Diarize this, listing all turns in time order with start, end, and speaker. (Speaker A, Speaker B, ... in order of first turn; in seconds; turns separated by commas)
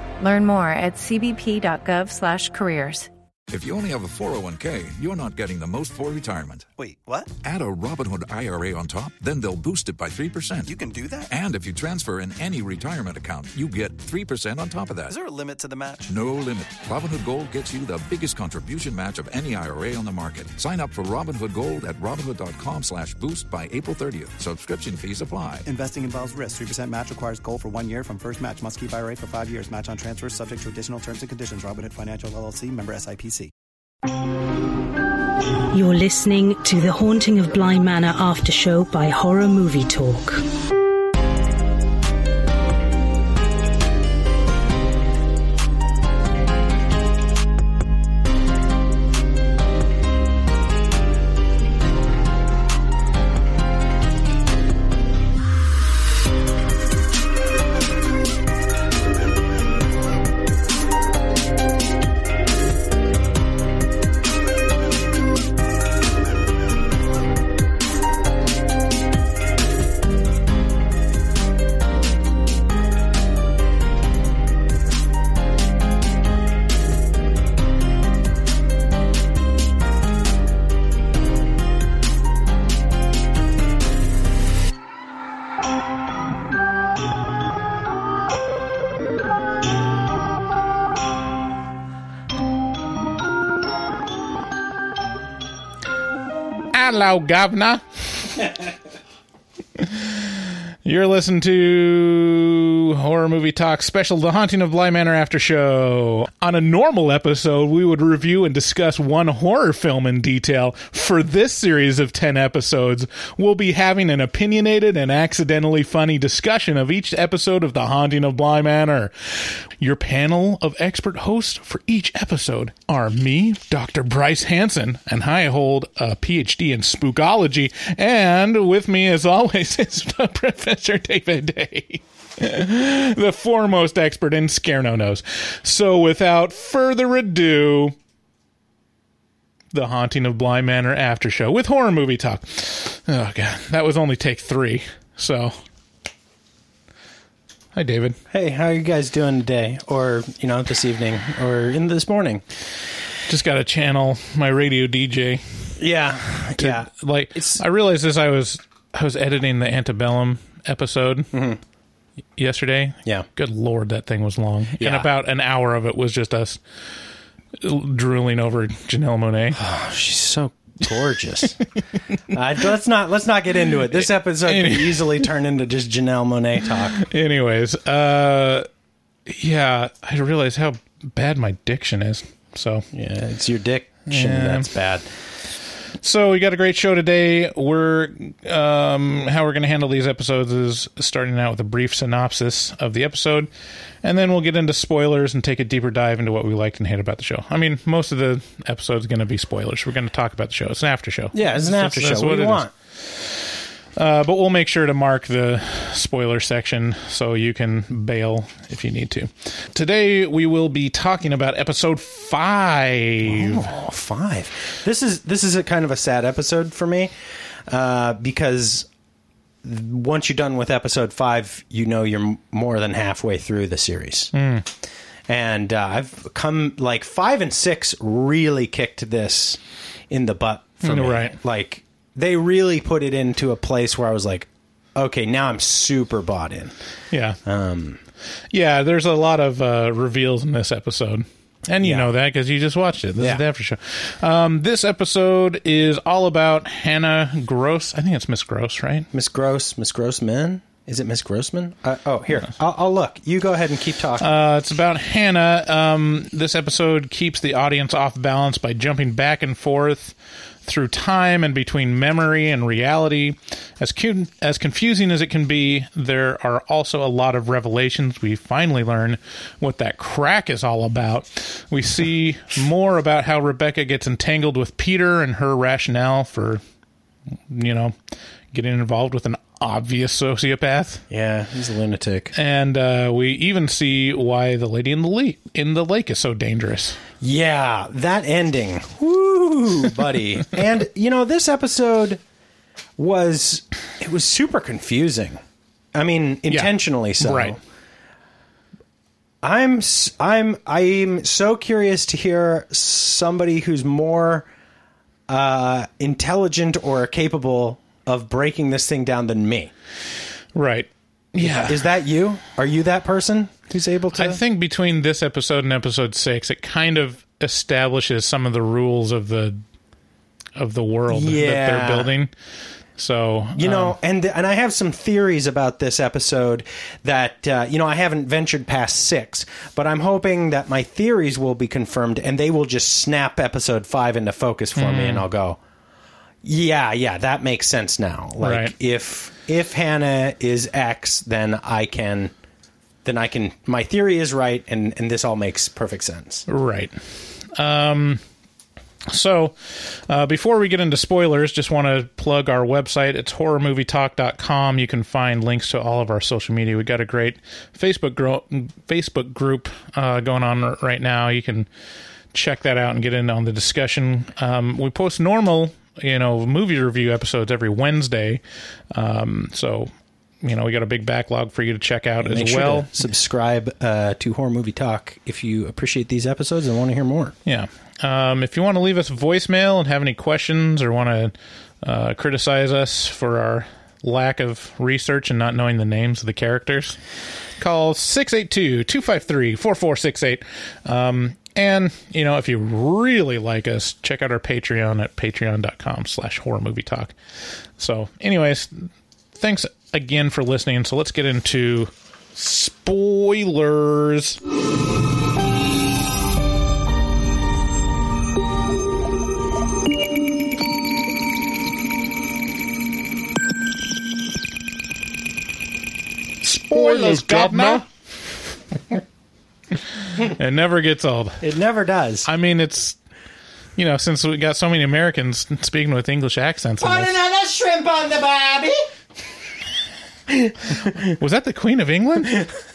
Speaker A: 0.2-3.1, Speaker B: 3.5-6.7, Speaker C: 6.8-7.3, Speaker B: 7.4-10.8, Speaker C: 10.7-11.3, Speaker B: 11.3-15.2, Speaker C: 15.1-16.1, Speaker B: 16.1-25.6, Speaker C: 25.7-33.5, Speaker D: 35.7-40.4, Speaker E: 96.7-98.4, Speaker E: 99.8-137.9, Speaker E: 139.7-145.6, Speaker E: 147.8-148.2, Speaker F: 148.3-152.4, Speaker E: 153.3-155.7, Speaker F: 155.8-157.6, Speaker E: 156.6-161.3, Speaker F: 161.3-161.6, Speaker E: 162.4-166.6, Speaker F: 164.8-165.1, Speaker E: 167.6-169.6, Speaker F: 169.6-171.6, Speaker F: 172.3-177.0, Speaker E: 174.0-175.3, Speaker E: 176.9-178.7, Speaker E: 179.3-182.9, Speaker F: 182.9-185.1, Speaker E: 184.1-184.7, Speaker E: 186.0-193.5, Speaker E: 194.0-203.4, Speaker F: 201.3-202.7, Speaker E: 204.0-213.7, Speaker F: 213.2-217.1, Speaker F: 217.7-218.9, Speaker F: 219.6-224.3, Speaker E: 224.3-224.7, Speaker F: 225.3-236.8, Speaker E: 230.8-231.4, Speaker E: 237.1-237.4, Speaker F: 237.4-238.0, Speaker E: 238.5-249.1, Speaker F: 241.8-242.1, Speaker F: 249.1-254.3, Speaker E: 254.2-276.6, Speaker E: 277.5-277.9, Speaker E: 278.5-281.0, Speaker F: 281.1-282.3, Speaker E: 282.3-287.0, Speaker F: 287.2-292.2, Speaker F: 293.0-295.4, Speaker F: 295.9-297.6, Speaker E: 296.5-297.6, Speaker F: 299.4-304.5, Speaker F: 305.3-309.7, Speaker E: 310.6-311.8, Speaker F: 311.4-314.4, Speaker E: 314.1-319.6, Speaker E: 320.6-322.3, Speaker F: 321.1-322.1, Speaker E: 323.0-324.0, Speaker F: 323.6-335.6, Speaker E: 334.8-335.3, Speaker F: 336.4-342.3, Speaker E: 338.4-338.7, Speaker F: 343.1-346.5, Speaker E: 346.5-348.2, Speaker E: 349.1-361.7, Speaker E: 362.3-368.4, Speaker E: 368.9-369.9, Speaker E: 370.4-373.0, Speaker F: 372.2-377.3, Speaker E: 377.4-387.0, Speaker E: 387.6-397.1, Speaker E: 397.8-404.4, Speaker E: 416.4-417.9, Speaker F: 416.7-417.8, Speaker E: 420.0-421.4, Speaker F: 421.4-422.3, Speaker E: 422.2-423.0, Speaker E: 423.8-427.1, Speaker F: 426.8-428.9, Speaker F: 430.3-431.1, Speaker E: 430.8-432.5, Speaker F: 432.2-432.6